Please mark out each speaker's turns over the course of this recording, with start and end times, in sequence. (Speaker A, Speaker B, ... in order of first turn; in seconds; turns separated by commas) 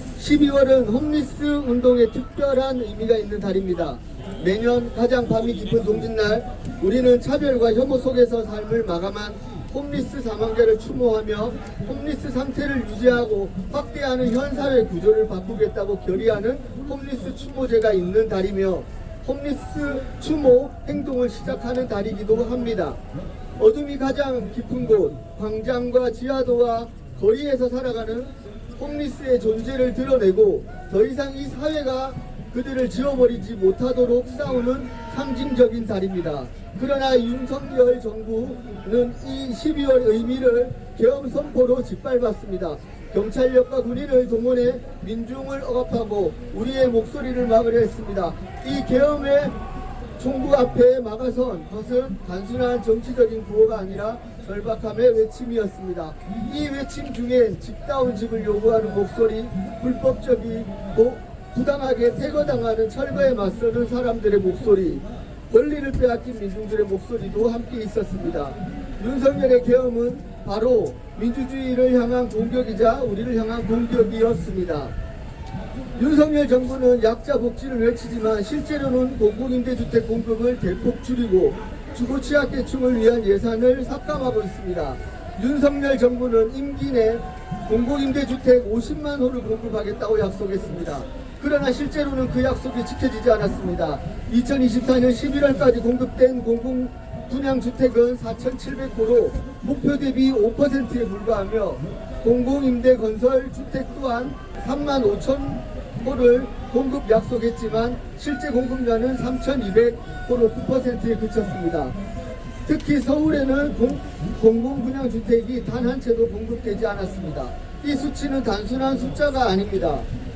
Speaker A: 0.2-23.0, Speaker A: 23.6-49.5, Speaker A: 50.2-74.9, Speaker A: 76.0-111.9, Speaker A: 112.7-120.0